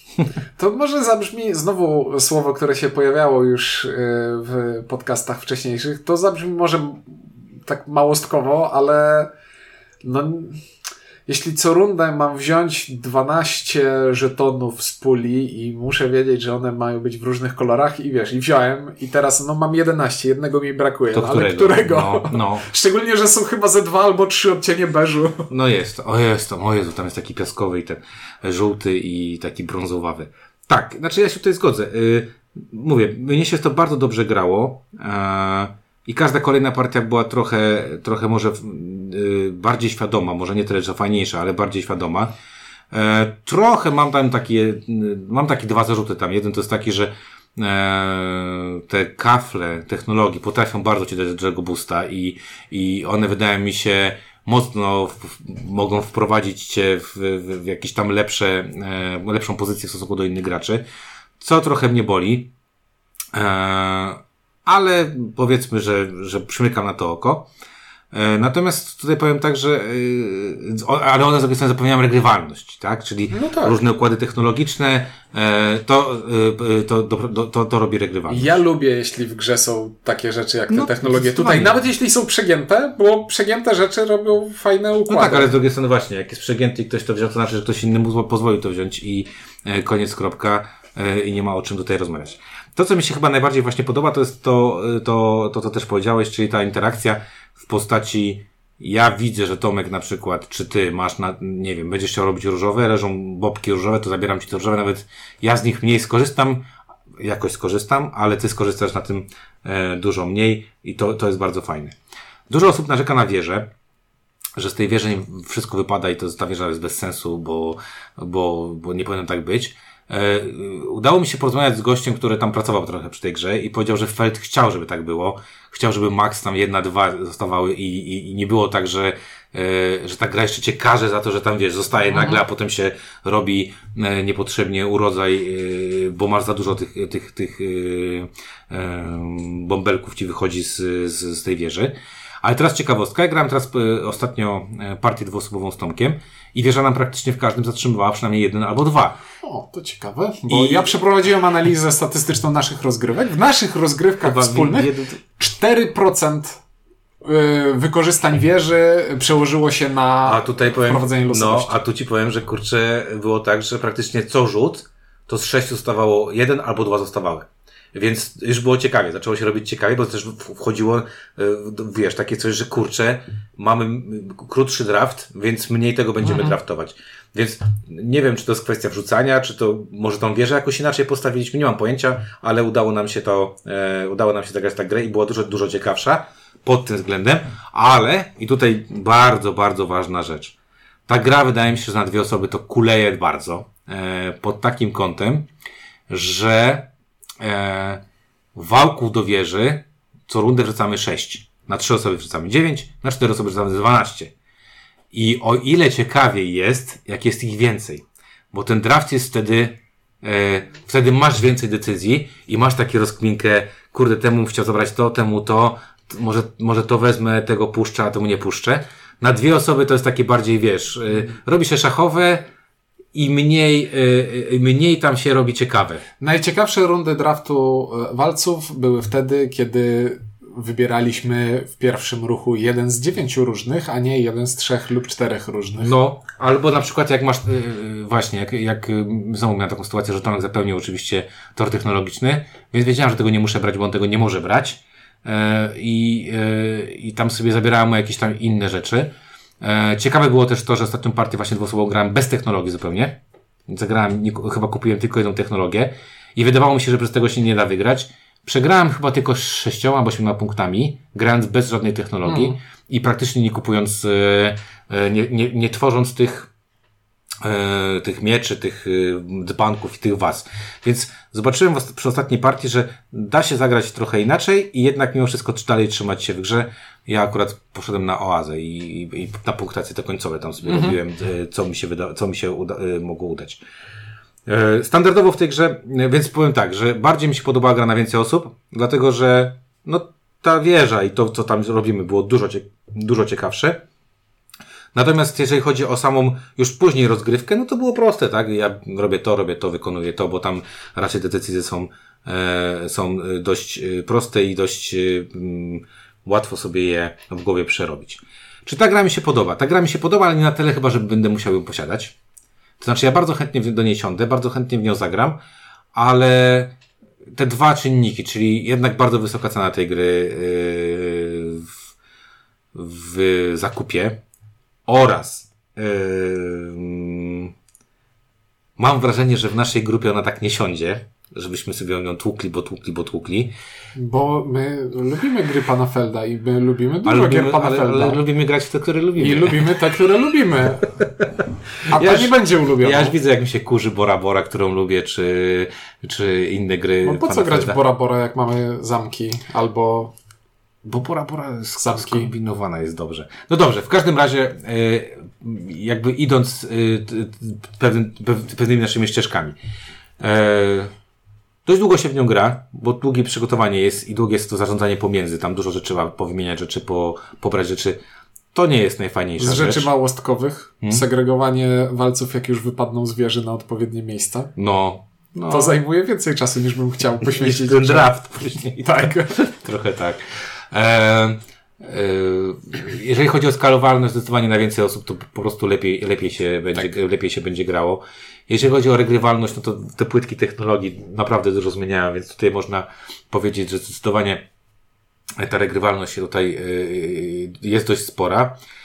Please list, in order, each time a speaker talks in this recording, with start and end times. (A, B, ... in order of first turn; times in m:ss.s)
0:00.6-0:09.3 A
0:10.0-0:10.6 A
0:11.3-0:25.5 A
0:21.1-0:22.7 B
0:25.5-0:42.3 B
0:42.9-1:00.8 B
1:01.4-1:02.5 B
1:03.3-1:07.5 B
1:08.1-1:18.6 B
1:13.3-1:13.8 A
1:18.3-1:25.6 A
1:20.7-1:21.7 B
1:25.1-1:46.7 B
1:47.2-1:52.0 B
1:52.5-1:53.7 B
1:54.6-2:29.2 B
2:12.1-2:12.4 A
2:29.4-2:36.6 A
2:30.5-2:30.9 B
2:34.2-2:35.2 B
2:37.2-2:41.8 A
2:40.2-3:10.6 B
2:56.2-2:56.5 A
3:11.1-3:15.5 B
3:16.1-3:16.9 B
3:17.4-3:18.0 B
3:18.6-3:24.3 B
3:25.1-3:42.4 B
3:43.1-3:46.0 B
3:46.2-3:55.9 A
3:55.8-4:09.1 B
4:09.6-4:26.5 B
4:22.2-4:22.6 A
4:27.4-4:43.6 B
4:40.6-4:41.0 A
4:44.5-4:53.8 B
4:54.9-5:12.2 B
5:12.8-5:15.4 B
5:15.9-5:16.8 B
5:17.4-5:21.7 B
5:22.7-5:24.2 B
5:24.9-5:27.5 B
5:28.8-5:33.5 B
5:34.0-5:38.2 A
5:37.0-5:39.8 B
5:39.2-5:40.9 A
5:41.0-5:47.8 B
5:41.9-5:43.2 A
5:47.0-5:50.1 A
5:50.8-5:59.6 B
5:51.8-5:52.3 A
6:00.2-6:00.9 B
6:01.6-6:08.0 B
6:08.5-6:09.9 B
6:09.4-6:14.5 A
6:14.6-6:15.8 B
6:15.5-6:19.4 A
6:17.4-6:34.4 B
6:35.4-6:38.6 B